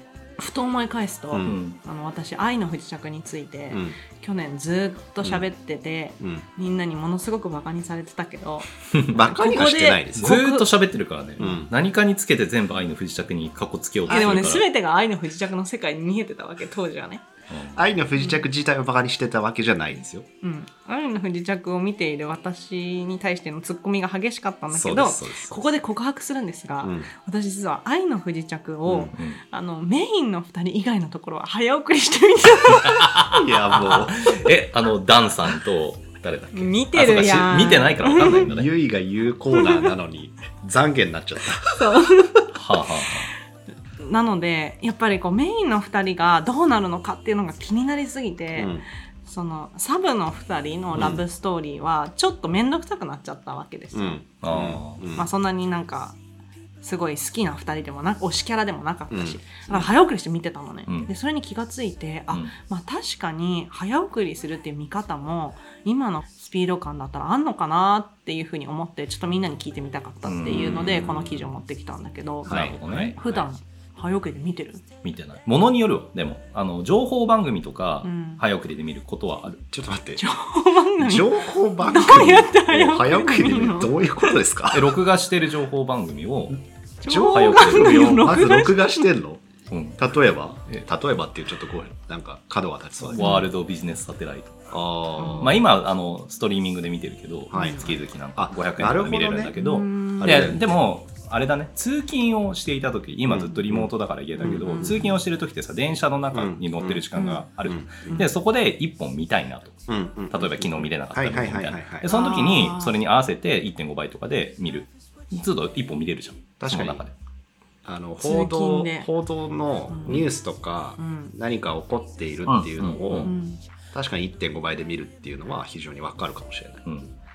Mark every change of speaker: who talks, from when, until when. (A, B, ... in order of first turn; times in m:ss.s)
0:00.4-0:10.7 A
0:01.3-0:01.6 B
0:01.4-0:01.8 C
0:03.7-0:04.0 B
0:06.2-0:06.4 B
0:09.1-0:10.4 B
0:10.2-0:14.7 C
0:11.4-0:11.7 B
0:14.1-0:17.2 A
0:14.1-0:14.4 B
0:17.5-0:17.8 C
0:17.7-0:20.3 B
0:20.4-0:33.2 A
0:24.7-0:25.6 B
0:26.8-0:27.1 B
0:28.9-0:29.1 B
0:29.1-0:29.4 C
0:32.8-0:38.7 C
0:33.3-0:34.4 B
0:36.5-0:38.5 A
0:38.3-0:41.8 B
0:39.5-0:39.9 A
0:41.8-0:42.4 A
0:42.5-0:43.3 C
0:44.0-0:54.2 A
0:48.6-0:48.8 B
0:51.0-0:51.2 B
0:53.9-0:55.3 B
0:54.4-0:55.1 C
0:55.2-0:56.2 A
0:56.8-1:12.6 A
0:59.1-0:59.8 B
1:10.2-1:11.4 C
1:12.4-1:13.4 C
1:12.5-1:13.3 B
1:13.1-1:14.8 A
1:15.0-1:19.6 C
1:18.0-1:18.4 A
1:19.7-1:20.3 B
1:20.2-1:24.4 A
1:21.0-1:25.0 B
1:24.7-1:28.3 C
1:27.0-1:29.1 A
1:27.1-1:29.5 B
1:29.7-1:30.0 C
1:30.0-1:33.4 B
1:33.0-1:57.1 C
1:33.2-1:33.5 A
1:34.7-1:35.6 B
1:35.2-1:35.5 A
1:37.5-1:39.6 B
1:37.5-1:37.9 A
1:39.6-1:40.6 A
1:40.2-1:40.7 B
1:43.3-1:43.9 B
1:44.4-1:45.1 A
1:44.4-1:45.1 B
1:46.3-1:47.1 B
1:47.2-1:47.5 A
1:47.6-1:48.3 B
1:49.9-1:52.1 B
1:52.1-1:53.0 A
1:56.6-1:57.0 B
1:57.8-2:03.3 B
1:58.2-1:59.1 A
1:59.9-2:00.2 A
2:01.0-2:01.4 A
2:02.5-2:03.3 C
2:03.2-2:03.6 A
2:03.9-2:06.9 B
2:06.9-2:07.1 C